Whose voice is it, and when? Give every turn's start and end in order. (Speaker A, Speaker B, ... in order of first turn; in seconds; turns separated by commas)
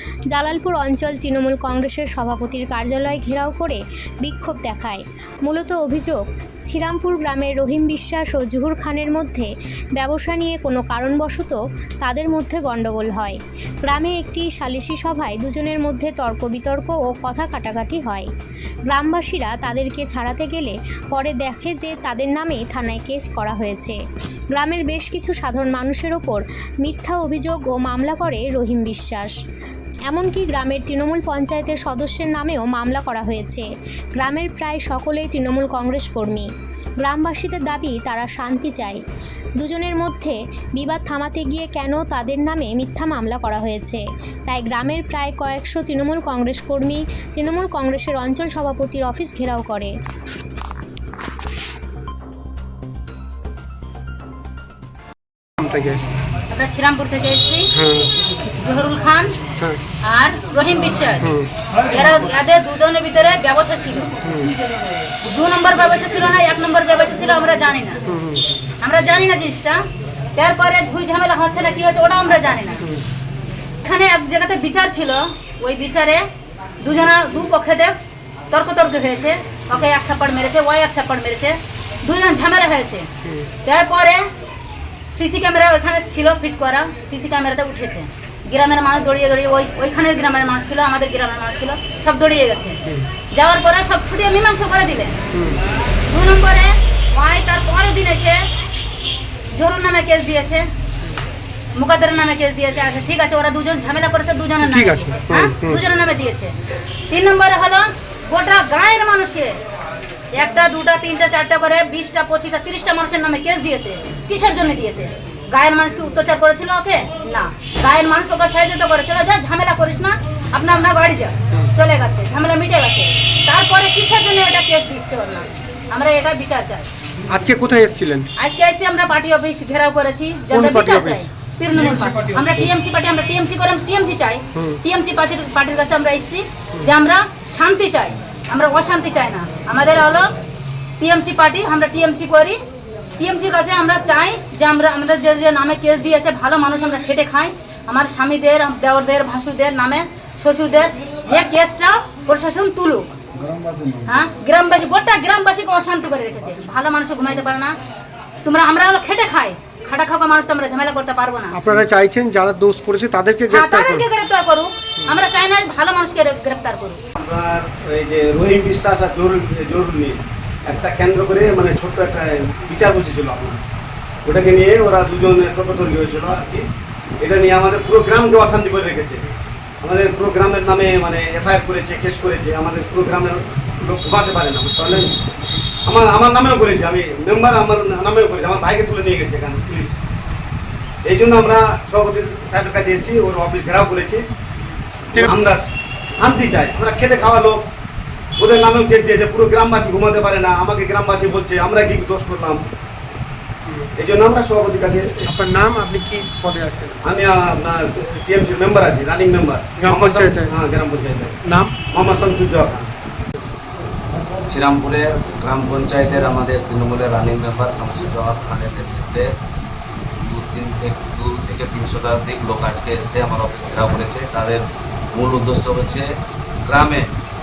Speaker A: 0.3-18.3, Speaker A: 18.9-24.0, Speaker A: 24.5-29.3, Speaker A: 30.1-36.5, Speaker A: 37.0-39.0, Speaker A: 39.6-49.9, Speaker B: 55.6-56.0, Speaker C: 56.5-57.7, Speaker B: 57.7-58.1, Speaker C: 58.5-59.4, Speaker C: 60.0-64.2, Speaker B: 64.2-64.5, Speaker C: 65.2-68.1, Speaker B: 68.1-68.5, Speaker C: 68.8-69.8, Speaker C: 70.3-73.0, Speaker C: 73.8-76.2, Speaker C: 76.8-78.0, Speaker C: 78.5-83.1, Speaker C: 83.6-84.2, Speaker C: 85.1-95.2, Speaker B: 95.3-95.6, Speaker C: 96.1-98.4, Speaker C: 99.5-100.7, Speaker C: 101.7-106.5, Speaker B: 104.6-105.8, Speaker C: 107.1-109.6, Speaker C: 110.3-126.9, Speaker B: 127.3-128.3, Speaker C: 128.4-140.3, Speaker B: 130.5-131.2, Speaker C: 141.0-142.6, Speaker C: 143.2-153.1, Speaker C: 154.0-157.8, Speaker C: 158.4-161.6, Speaker B: 161.5-164.0, Speaker C: 163.5-167.0, Speaker D: 167.2-173.7, Speaker D: 174.2-176.7, Speaker D: 177.2-179.3, Speaker D: 179.8-185.2, Speaker D: 185.8-190.0, Speaker D: 191.0-194.3, Speaker D: 195.1-197.7, Speaker D: 198.4-202.6, Speaker D: 203.9-205.4, Speaker B: 205.3-207.0, Speaker D: 207.0-211.4, Speaker B: 209.8-210.5, Speaker B: 211.4-211.8, Speaker D: 211.9-212.9, Speaker E: 214.4-219.3, Speaker E: 220.2-226.1, Speaker E: 226.6-227.1